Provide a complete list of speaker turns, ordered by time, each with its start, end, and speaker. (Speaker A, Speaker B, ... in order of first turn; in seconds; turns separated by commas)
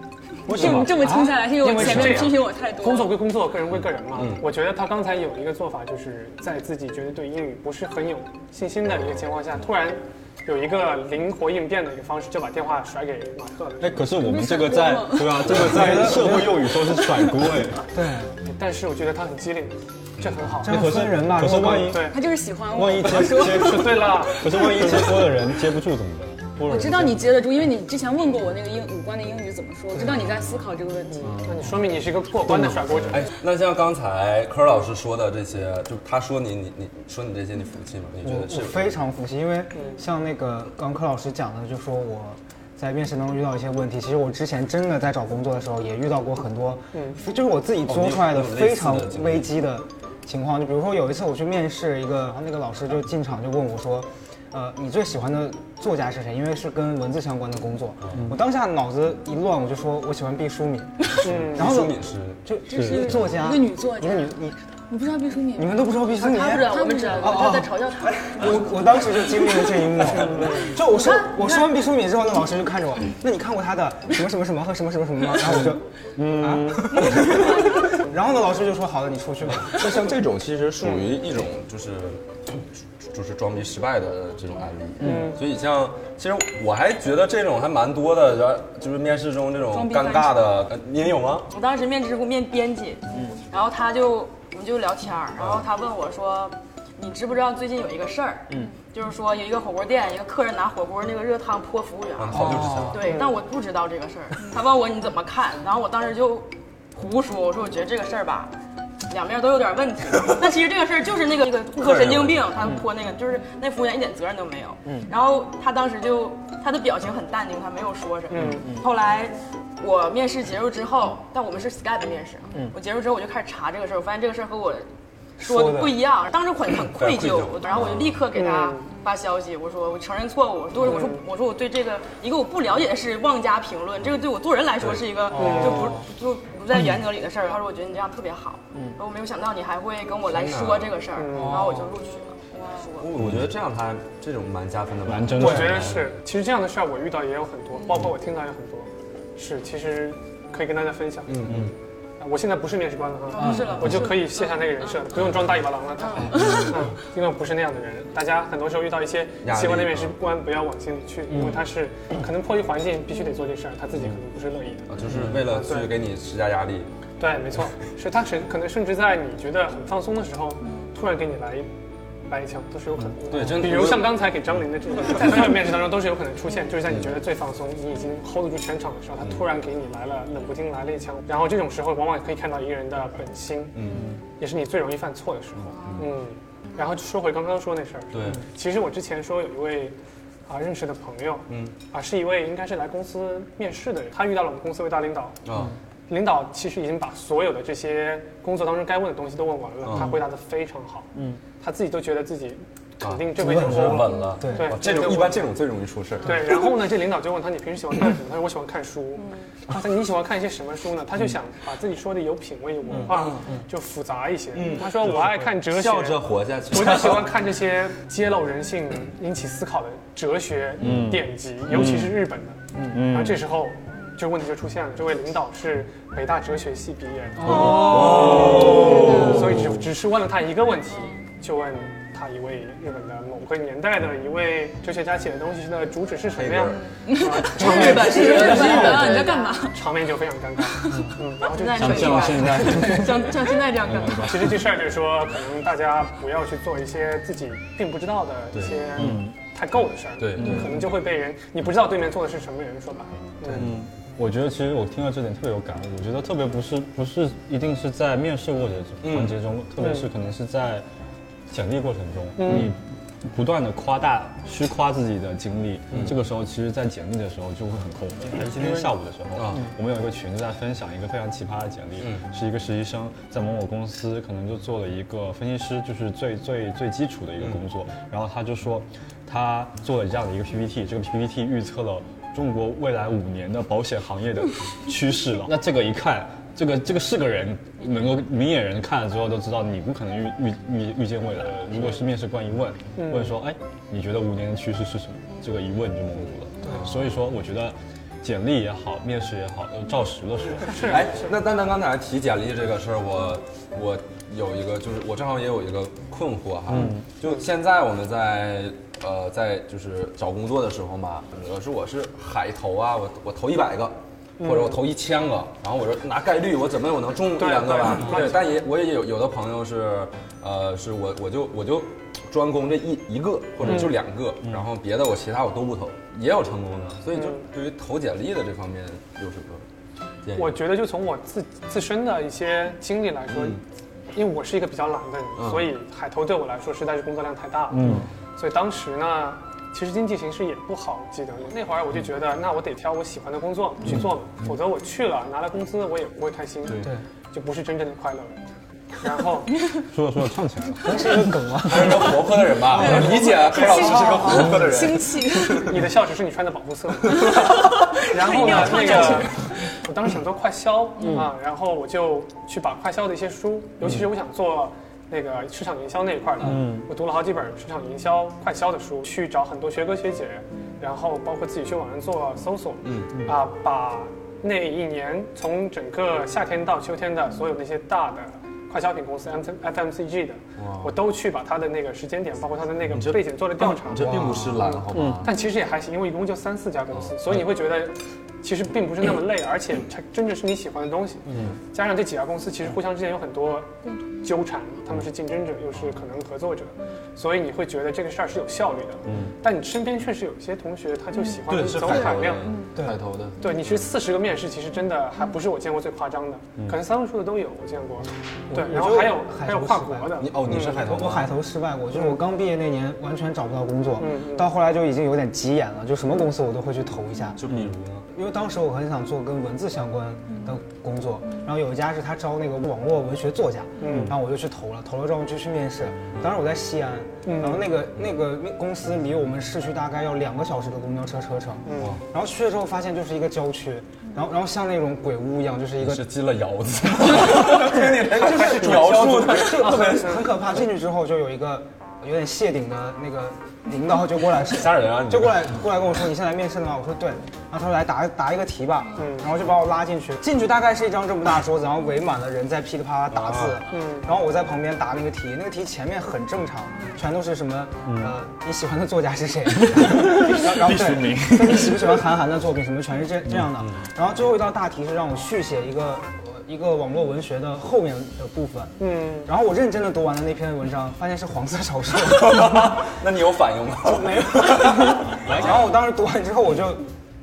Speaker A: 0.5-3.2, Speaker B: 0.6-0.8, Speaker C: 0.6-14.0, Speaker D: 0.7-1.3, Speaker B: 1.8-2.3, Speaker B: 3.7-4.5, Speaker E: 13.8-17.9, Speaker A: 14.1-16.0, Speaker D: 15.5-16.6, Speaker D: 17.9-18.3, Speaker C: 18.4-20.9, Speaker B: 20.2-20.6, Speaker D: 20.6-22.0, Speaker E: 20.6-22.0, Speaker C: 21.7-22.2, Speaker A: 22.0-24.1, Speaker E: 22.7-27.2, Speaker C: 23.3-24.5, Speaker A: 26.6-31.4, Speaker C: 31.1-33.2, Speaker B: 33.1-39.0, Speaker D: 38.2-64.6, Speaker C: 46.9-47.2, Speaker B: 47.9-49.5, Speaker B: 61.2-62.4, Speaker C: 61.2-61.8, Speaker A: 62.7-67.7, Speaker E: 62.7-63.1, Speaker D: 65.5-80.2, Speaker F: 66.2-68.7, Speaker C: 70.3-70.8, Speaker A: 71.1-71.5, Speaker E: 75.6-77.0, Speaker B: 79.6-91.5, Speaker C: 85.0-85.4, Speaker A: 89.7-90.4, Speaker F: 91.5-108.5, Speaker B: 95.4-95.7, Speaker B: 102.2-103.1, Speaker D: 102.3-103.0, Speaker F: 109.1-124.9, Speaker B: 111.8-112.8, Speaker C: 118.3-118.8, Speaker D: 118.6-118.8, Speaker D: 125.4-126.0, Speaker F: 125.4-143.1, Speaker B: 126.9-128.3, Speaker C: 128.3-128.9, Speaker C: 130.8-131.2, Speaker B: 134.8-135.2, Speaker C: 135.3-136.0, Speaker B: 140.3-141.0, Speaker C: 141.1-141.8, Speaker B: 143.0-146.1, Speaker E: 143.2-143.5, Speaker E: 145.1-145.9, Speaker C: 145.3-151.4, Speaker B: 151.3-151.7, Speaker C: 152.2-164.9, Speaker F: 153.3-154.4, Speaker D: 153.4-153.7, Speaker B: 155.2-155.5, Speaker D: 156.3-156.5, Speaker A: 156.4-156.7, Speaker B: 159.4-160.2, Speaker B: 164.9-166.9, Speaker C: 165.4-165.9, Speaker C: 167.2-171.7, Speaker C: 172.3-183.8, Speaker B: 173.3-174.3, Speaker B: 176.9-177.2, Speaker B: 183.7-184.1, Speaker C: 184.4-195.4, Speaker B: 185.7-186.1, Speaker B: 188.1-188.4, Speaker B: 191.5-191.8, Speaker B: 195.4-195.8, Speaker C: 196.1-201.1, Speaker B: 199.8-200.2, Speaker C: 201.6-205.5, Speaker B: 203.0-206.5, Speaker D: 203.4-204.7, Speaker C: 206.2-242.7, Speaker B: 212.9-213.3, Speaker B: 214.5-217.3, Speaker E: 220.8-222.1, Speaker E: 222.9-223.4, Speaker B: 227.4-229.5, Speaker D: 227.5-228.1, Speaker A: 228.9-229.2, Speaker B: 236.3-236.8, Speaker A: 237.0-239.8, Speaker F: 237.5-239.6, Speaker B: 237.6-238.7, Speaker D: 237.7-239.0, Speaker A: 240.7-241.1, Speaker F: 241.4-244.6, Speaker E: 241.7-244.5, Speaker C: 244.2-253.7, Speaker B: 248.5-249.2, Speaker E: 249.0-249.3, Speaker B: 250.2-250.7, Speaker E: 250.4-250.7, Speaker B: 253.4-253.8, Speaker E: 253.5-260.9, Speaker B: 259.0-259.4, Speaker C: 259.8-260.1, Speaker E: 261.5-301.0, Speaker C: 262.4-262.7, Speaker B: 265.9-266.2, Speaker B: 268.4-269.7, Speaker B: 272.0-272.3, Speaker C: 292.9-293.4, Speaker B: 296.6-297.1, Speaker C: 300.6-301.4, Speaker B: 300.8-329.6, Speaker E: 306.7-307.1, Speaker C: 314.4-314.8, Speaker C: 317.3-318.6, Speaker C: 323.6-323.9, Speaker C: 327.1-327.4, Speaker B: 330.2-330.6, Speaker C: 330.3-333.6, Speaker B: 333.3-333.6, Speaker C: 334.1-348.4, Speaker B: 335.4-335.7, Speaker E: 337.7-338.0, Speaker B: 346.7-346.9, Speaker C: 349.0-349.5, Speaker E: 349.9-351.4, Speaker D: 350.8-353.0, Speaker B: 351.6-355.7, Speaker A: 352.7-355.6, Speaker C: 355.5-402.5, Speaker A: 357.7-359.3, Speaker B: 358.3-359.0, Speaker E: 366.4-366.9, Speaker B: 372.8-373.2, Speaker B: 380.6-381.0, Speaker B: 382.9-385.3, Speaker D: 384.0-384.6, Speaker E: 384.9-385.2, Speaker B: 386.9-387.5, Speaker E: 399.1-399.3, Speaker B: 401.5-403.8, Speaker A: 402.4-402.8, Speaker D: 402.7-403.0, Speaker C: 403.4-410.8, Speaker D: 408.5-417.4, Speaker B: 410.2-411.4, Speaker C: 414.0-414.5, Speaker B: 417.4-418.1, Speaker D: 418.1-436.1, Speaker C: 423.8-424.1, Speaker C: 427.2-427.7, Speaker C: 431.6-432.0, Speaker B: 431.7-432.0, Speaker B: 435.8-440.3, Speaker D: 437.1-472.8, Speaker B: 444.5-445.6, Speaker C: 449.0-449.3, Speaker B: 453.1-453.6, Speaker C: 453.7-454.1, Speaker E: 457.8-458.1, Speaker E: 459.6-461.9, Speaker C: 468.8-469.3, Speaker B: 472.1-475.6, Speaker D: 473.8-476.9